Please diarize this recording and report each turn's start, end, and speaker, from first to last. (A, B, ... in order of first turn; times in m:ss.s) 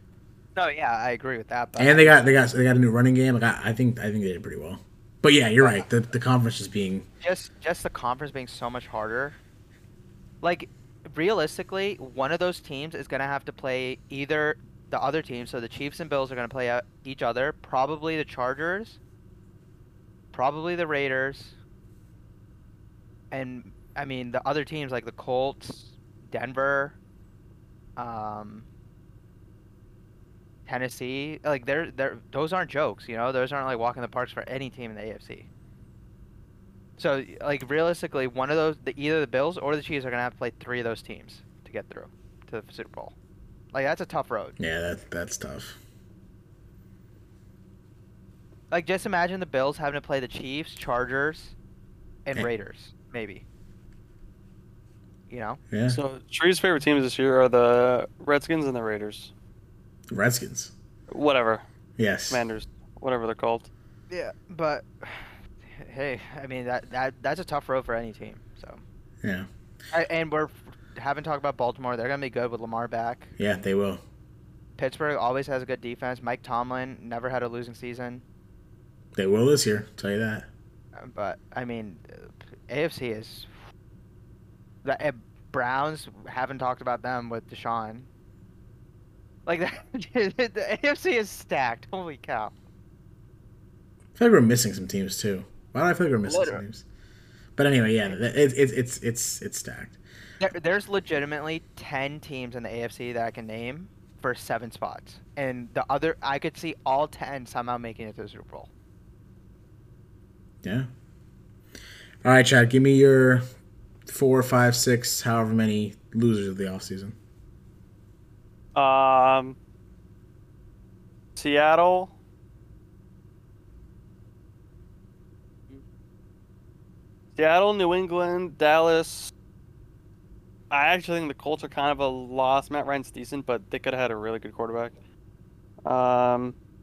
0:00.5-0:02.2 A
0:01.8-0:07.1 B
0:07.2-0:09.4 A
0:10.4-0:19.0 A
0:20.3-0:21.6 A
0:23.3-0:27.0 A
0:28.0-0:28.7 A
0:30.6-0:35.5 A
0:37.0-0:43.1 A
0:43.7-0:44.6 A
0:44.6-0:45.8 B
0:48.7-0:51.6 A
0:52.2-0:53.4 A
0:55.3-0:55.6 A
0:55.7-0:56.0 B
0:55.9-0:59.3 C
1:00.1-1:00.7 B
1:01.1-1:01.6 C
1:02.0-1:02.4 B
1:02.3-1:03.7 C
1:04.1-1:08.8 A
1:09.9-1:13.3 A
1:13.4-1:14.0 B
1:14.8-1:18.2 A
1:19.2-1:20.5 B
1:21.0-1:23.5 A
1:24.8-1:28.1 A
1:29.4-1:32.5 A
1:34.2-1:36.8 B
1:36.2-1:36.6 A
1:37.6-1:40.0 B
1:40.4-1:48.7 A
1:50.6-1:50.9 B
1:52.2-1:53.4 B
1:54.1-1:57.2 B
1:58.7-1:59.6 C
2:01.4-2:02.1 C
2:07.4-2:09.3 C
2:10.7-2:14.9 C
2:15.8-2:16.6 C